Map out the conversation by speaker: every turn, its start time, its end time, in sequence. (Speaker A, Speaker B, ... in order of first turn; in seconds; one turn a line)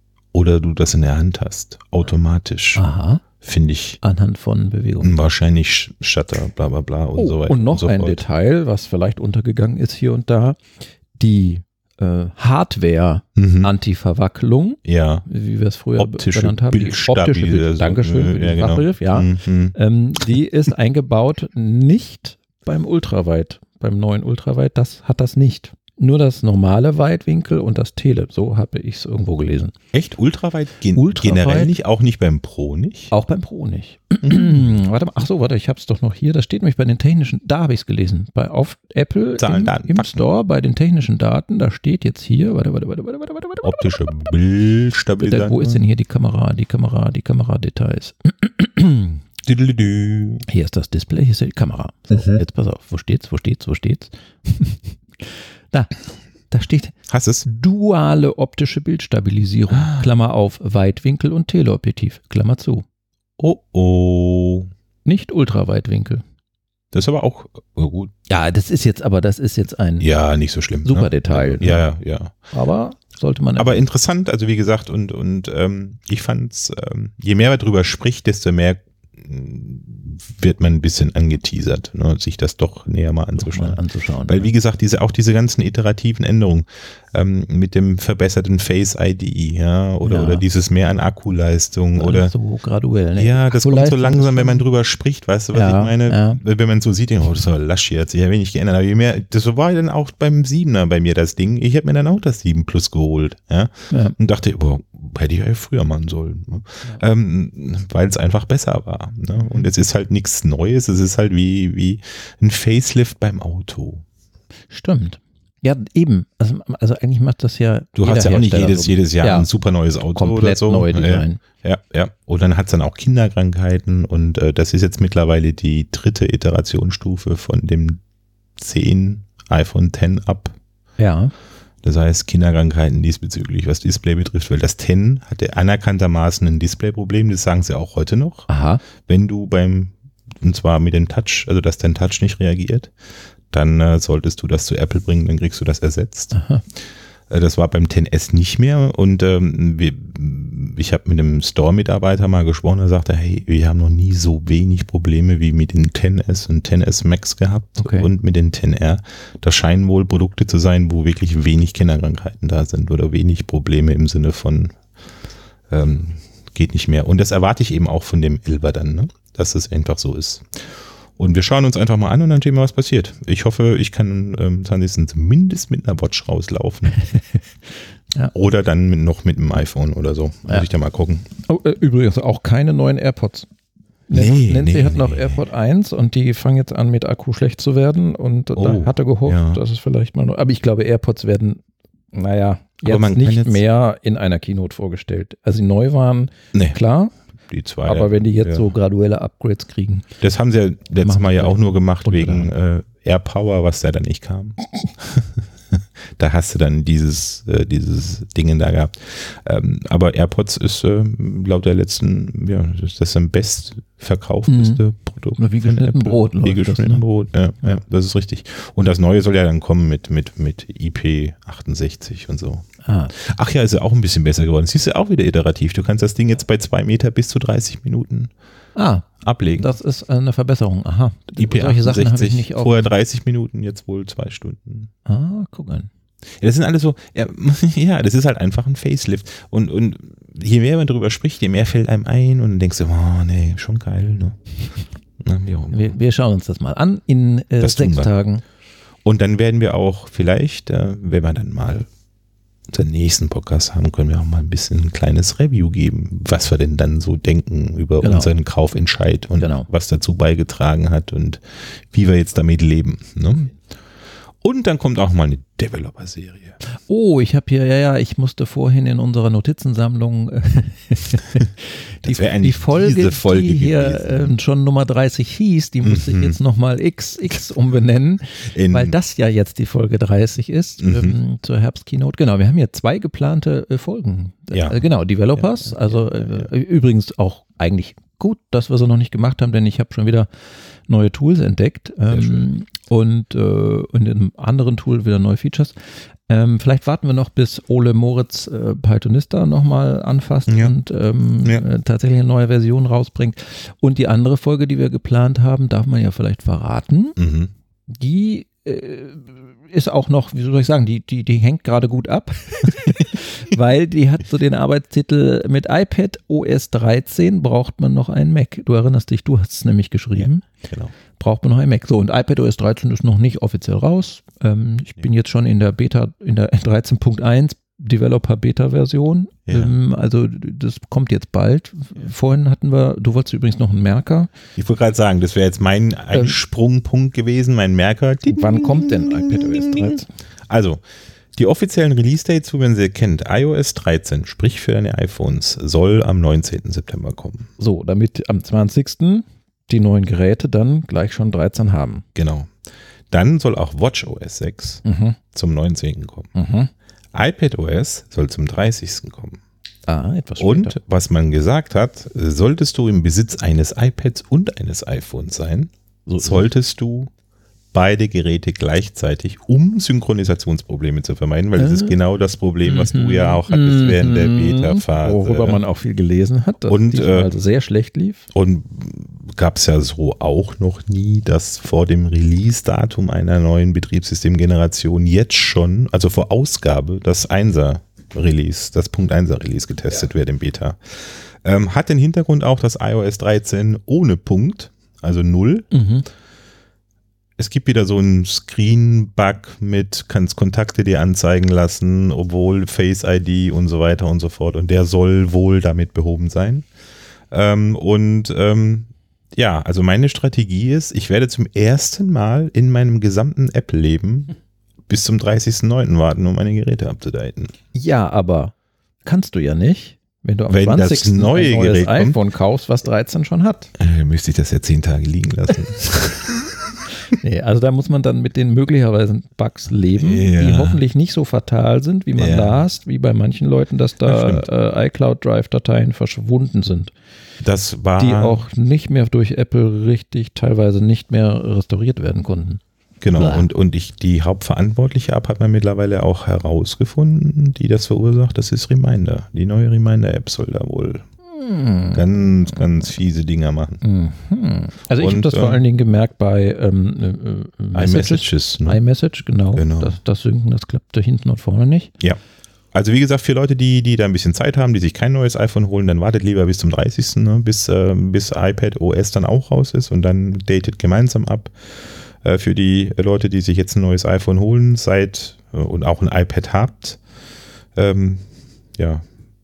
Speaker A: 0.3-2.8
Speaker B: 2.8-3.2
Speaker A: 3.4-4.0
Speaker B: 4.0-5.2
Speaker A: 5.0-8.2
Speaker B: 7.2-10.6
Speaker B: 11.2-29.7
Speaker A: 13.3-13.7
Speaker A: 14.8-15.2
Speaker A: 16.0-19.8
Speaker A: 29.9-33.1
Speaker B: 30.9-31.7
Speaker B: 33.1-43.8
Speaker A: 34.3-34.6
Speaker A: 39.4-40.2
Speaker A: 43.6-45.8
Speaker B: 45.2-49.2
Speaker A: 49.4-50.4
Speaker B: 50.5-56.0
Speaker B: 56.5-62.8
Speaker A: 57.1-57.5
Speaker A: 59.7-60.1
Speaker A: 63.4-64.7
Speaker B: 65.0-66.2
Speaker A: 66.9-68.1
Speaker B: 68.3-70.1
Speaker A: 70.0-72.3
Speaker B: 70.8-71.8
Speaker B: 72.5-73.8
Speaker A: 73.6-92.3
Speaker B: 83.4-84.5
Speaker B: 90.0-90.4
Speaker B: 92.0-94.6
Speaker A: 93.2-114.0
Speaker B: 95.5-96.4
Speaker B: 103.9-104.2
Speaker B: 109.4-109.7
Speaker B: 114.7-119.5
Speaker A: 118.0-128.0
Speaker B: 120.1-121.4
Speaker A: 128.6-130.6
Speaker B: 131.0-131.3
Speaker A: 131.8-138.5
Speaker B: 138.5-138.8
Speaker A: 139.0-142.9
Speaker A: 143.5-146.3
Speaker B: 146.3-146.6
Speaker A: 147.3-164.8
Speaker B: 157.8-158.1
Speaker A: 165.7-177.0
Speaker A: 178.3-181.3
Speaker B: 181.4-183.5
Speaker B: 184.1-191.6
Speaker A: 184.1-185.4
Speaker A: 188.5-189.6
Speaker B: 192.1-197.1
Speaker A: 192.8-193.6
Speaker A: 197.5-198.7
Speaker B: 197.8-200.1
Speaker A: 200.2-228.3
Speaker B: 201.0-202.5
Speaker B: 214.5-214.8
Speaker B: 215.4-217.0
Speaker B: 222.8-223.1
Speaker B: 228.7-232.9
Speaker A: 229.2-229.7
Speaker A: 231.4-234.9
Speaker B: 235.1-235.9
Speaker A: 236.4-244.4
Speaker A: 245.2-245.9
Speaker B: 245.7-248.4
Speaker A: 247.6-248.1
Speaker A: 249.0-251.9
Speaker A: 252.7-263.5
Speaker B: 258.0-258.3
Speaker B: 259.4-259.7
Speaker A: 264.4-266.6
Speaker B: 266.7-290.3
Speaker A: 272.0-274.3
Speaker A: 275.8-276.4
Speaker A: 278.5-278.9
Speaker A: 280.8-281.2
Speaker A: 284.5-284.8
Speaker A: 285.4-286.5
Speaker B: 290.9-295.7
Speaker A: 292.1-292.5
Speaker B: 296.3-307.2
Speaker A: 300.5-300.7
Speaker A: 307.2-307.5
Speaker B: 307.9-320.4
Speaker A: 320.2-320.9
Speaker B: 321.1-334.3
Speaker A: 329.5-329.7
Speaker A: 334.6-340.8
Speaker B: 338.3-340.1
Speaker A: 341.4-347.5
Speaker B: 347.6-352.1
Speaker A: 352.1-352.5
Speaker A: 353.1-356.3
Speaker B: 354.8-355.2
Speaker B: 356.3-356.7
Speaker A: 357.1-359.4
Speaker B: 359.9-360.8
Speaker A: 360.4-367.1
Speaker B: 366.1-366.5
Speaker A: 367.7-375.6
Speaker B: 371.6-371.9
Speaker B: 372.6-378.3
Speaker A: 376.7-377.3
Speaker A: 378.3-395.7
Speaker B: 395.7-396.1
Speaker A: 397.4-406.6
Speaker A: 407.3-414.3
Speaker A: 414.9-417.5
Speaker B: 417.7-418.5
Speaker B: 419.0-423.7
Speaker A: 420.5-422.2
Speaker A: 423.8-426.8
Speaker B: 427.0-436.9
Speaker A: 430.0-430.8
Speaker A: 432.2-432.6
Speaker A: 434.0-434.5
Speaker A: 437.4-438.4
Speaker B: 438.0-442.6
Speaker A: 443.0-451.1
Speaker B: 443.1-443.5
Speaker B: 451.3-452.0
Speaker A: 451.9-453.8
Speaker B: 453.8-461.9
Speaker A: 455.0-455.6
Speaker A: 457.7-458.8
Speaker A: 459.6-460.0
Speaker A: 462.7-471.5
Speaker A: 472.2-477.0
Speaker A: 477.8-478.2
Speaker A: 478.8-479.0